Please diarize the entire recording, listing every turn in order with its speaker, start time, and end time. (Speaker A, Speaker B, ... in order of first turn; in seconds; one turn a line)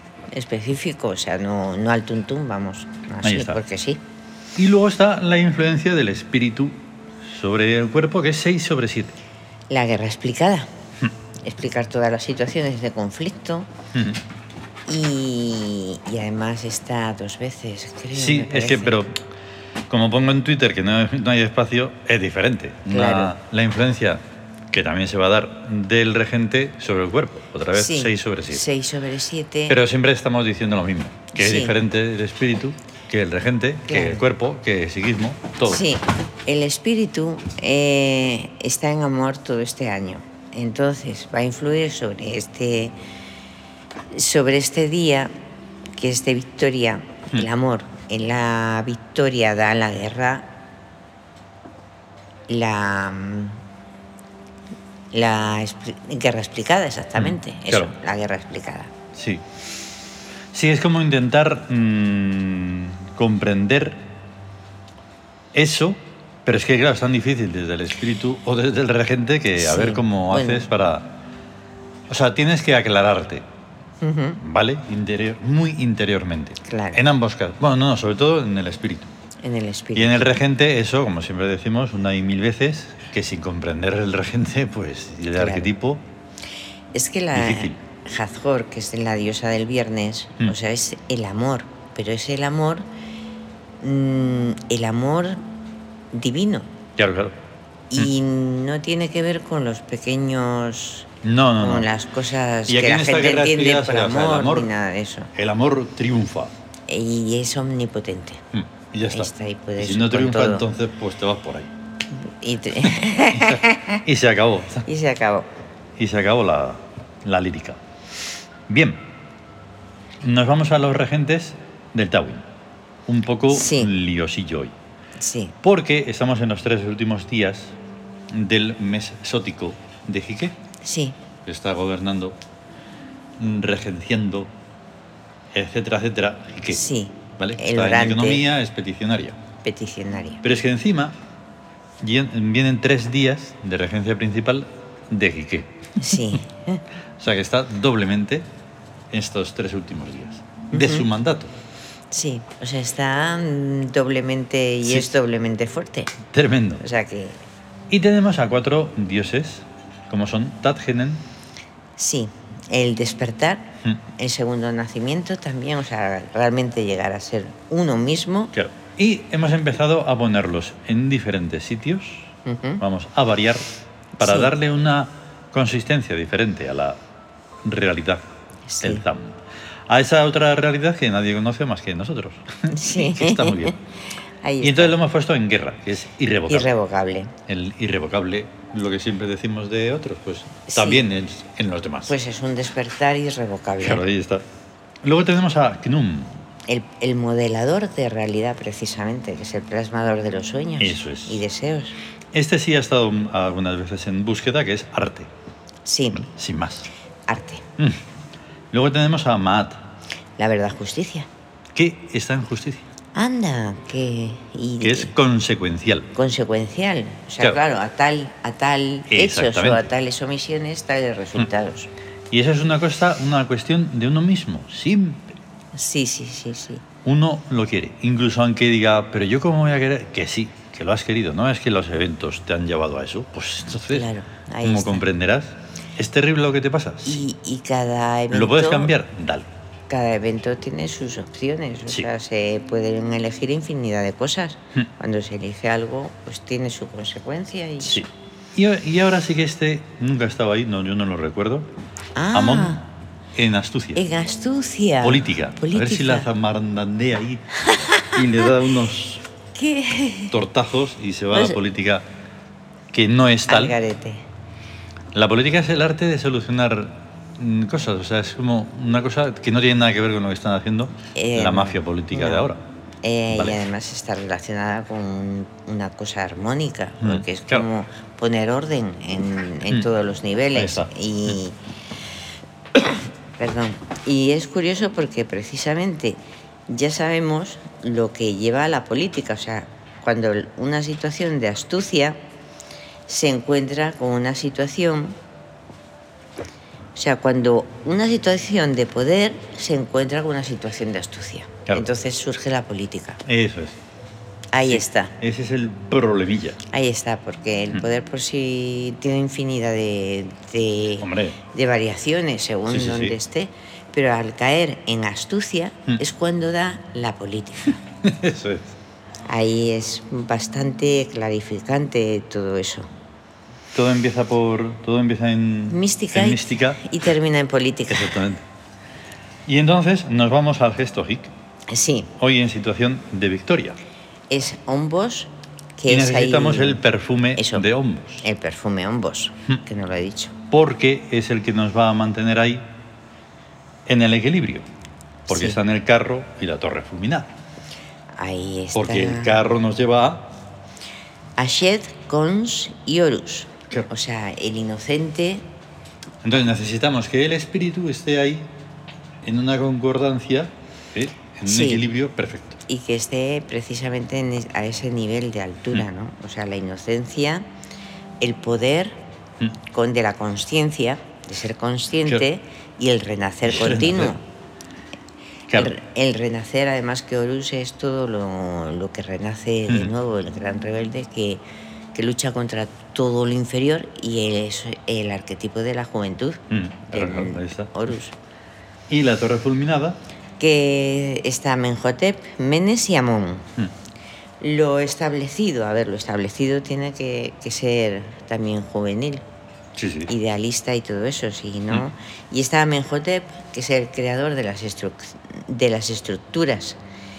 Speaker A: 0.3-4.0
Speaker B: 3.2-3.6
Speaker B: 4.5-9.1
Speaker A: 9.7-10.7
Speaker A: 11.4-13.7
Speaker B: 13.9-14.2
Speaker A: 14.8-19.0
Speaker B: 18.1-19.2
Speaker B: 19.9-28.6
Speaker A: 22.9-23.3
Speaker A: 27.7-29.8
Speaker B: 29.7-35.9
Speaker A: 31.3-31.8
Speaker A: 33.9-34.2
Speaker A: 35.6-43.0
Speaker A: 44.1-45.3
Speaker A: 46.0-50.5
Speaker A: 52.5-53.6
Speaker A: 55.1-58.9
Speaker B: 57.2-57.9
Speaker B: 59.1-59.4
Speaker B: 60.5-64.0
Speaker B: 65.5-71.2
Speaker A: 69.6-70.7
Speaker B: 72.1-73.4
Speaker A: 74.0-74.4
Speaker B: 74.4-79.1
Speaker A: 76.6-77.0
Speaker A: 79.4-80.3
Speaker B: 79.9-86.0
Speaker A: 85.3-85.7
Speaker A: 86.9-92.8
Speaker B: 87.3-87.8
Speaker A: 93.8-95.4
Speaker A: 96.1-96.7
Speaker B: 97.0-97.3
Speaker A: 97.9-105.3
Speaker B: 101.2-101.9
Speaker B: 102.7-104.7
Speaker B: 105.3-106.5
Speaker A: 106.9-108.4
Speaker B: 108.5-111.7
Speaker A: 109.1-110.7
Speaker A: 112.1-114.0
Speaker B: 113.3-114.8
Speaker A: 114.8-115.5
Speaker B: 116.0-117.8
Speaker B: 118.7-119.0
Speaker B: 120.2-122.5
Speaker B: 123.1-124.7
Speaker A: 123.5-123.9
Speaker A: 125.2-125.5
Speaker B: 125.6-127.8
Speaker B: 128.3-130.5
Speaker A: 130.8-131.2
Speaker B: 131.4-132.3
Speaker B: 133.4-134.5
Speaker B: 135.5-136.8
Speaker A: 136.7-138.4
Speaker B: 137.4-139.4
Speaker A: 139.6-140.4
Speaker B: 140.4-141.2
Speaker B: 142.0-146.2
Speaker A: 146.0-146.8
Speaker B: 147.2-148.4
Speaker B: 149.1-151.5
Speaker A: 150.7-151.1
Speaker A: 152.1-156.1
Speaker B: 154.8-155.1
Speaker B: 156.3-156.8
Speaker A: 156.8-157.4
Speaker B: 157.9-161.2
Speaker A: 162.0-168.5
Speaker B: 168.5-173.7
Speaker A: 172.4-172.8
Speaker A: 174.2-174.5
Speaker B: 174.2-177.0
Speaker B: 177.6-178.2
Speaker A: 178.7-179.0
Speaker B: 178.8-183.8
Speaker A: 182.7-183.8
Speaker A: 184.4-184.9
Speaker B: 184.6-186.7
Speaker A: 186.5-187.3
Speaker B: 187.5-192.1
Speaker A: 190.7-191.1
Speaker A: 192.1-194.0
Speaker B: 193.8-194.4
Speaker B: 195.0-196.3
Speaker A: 196.7-201.9
Speaker B: 200.8-201.4
Speaker B: 202.3-205.3
Speaker A: 205.8-206.3
Speaker B: 206.1-206.9
Speaker A: 207.3-207.6
Speaker B: 208.7-209.8
Speaker A: 210.4-211.3
Speaker B: 211.7-212.8
Speaker A: 213.1-215.1
Speaker B: 214.8-216.1
Speaker A: 216.1-221.9
Speaker B: 219.1-219.9
Speaker B: 222.3-225.3
Speaker A: 225.7-226.8
Speaker B: 227.0-234.1
Speaker A: 233.9-235.1
Speaker B: 234.6-237.2
Speaker A: 237.0-238.9
Speaker B: 238.3-239.5
Speaker A: 239.9-248.0
Speaker B: 247.8-251.7
Speaker A: 252.1-252.8
Speaker B: 252.3-254.0
Speaker A: 253.9-256.3
Speaker B: 255.0-259.2
Speaker A: 257.6-258.4
Speaker A: 259.5-260.4
Speaker B: 260.3-262.0
Speaker A: 261.3-261.6
Speaker B: 262.9-263.8
Speaker A: 263.5-264.2
Speaker B: 265.1-272.6
Speaker A: 271.1-272.5
Speaker A: 273.0-281.6
Speaker B: 273.3-273.6
Speaker B: 277.0-277.7
Speaker B: 280.5-281.3
Speaker A: 282.7-292.2
Speaker A: 293.1-295.2
Speaker A: 296.9-303.2
Speaker B: 303.2-303.8
Speaker A: 304.5-305.1
Speaker B: 304.6-306.6
Speaker A: 306.7-317.8
Speaker B: 311.0-311.4
Speaker B: 312.7-313.1
Speaker B: 318.0-318.7
Speaker A: 319.2-322.9
Speaker B: 323.7-326.8
Speaker A: 325.7-328.2
Speaker B: 327.9-328.4
Speaker B: 329.4-331.3
Speaker A: 331.7-332.1
Speaker B: 332.2-333.8
Speaker A: 334.3-336.8
Speaker B: 335.9-338.2
Speaker A: 337.3-337.6
Speaker A: 338.2-340.3
Speaker B: 340.5-342.6
Speaker B: 343.9-344.7
Speaker A: 345.3-345.6
Speaker B: 345.3-347.3
Speaker A: 348.1-349.4
Speaker B: 348.7-350.3
Speaker A: 351.4-355.5
Speaker B: 356.2-358.5
Speaker B: 359.2-362.6
Speaker A: 361.4-361.8
Speaker A: 362.7-367.4
Speaker A: 368.2-369.0
Speaker A: 369.6-374.2
Speaker B: 373.4-374.1
Speaker A: 375.5-381.4
Speaker A: 381.9-388.1
Speaker B: 386.5-387.7
Speaker B: 388.9-390.0
Speaker A: 390.4-393.5
Speaker A: 394.4-399.2
Speaker B: 399.8-400.1
Speaker A: 400.1-406.8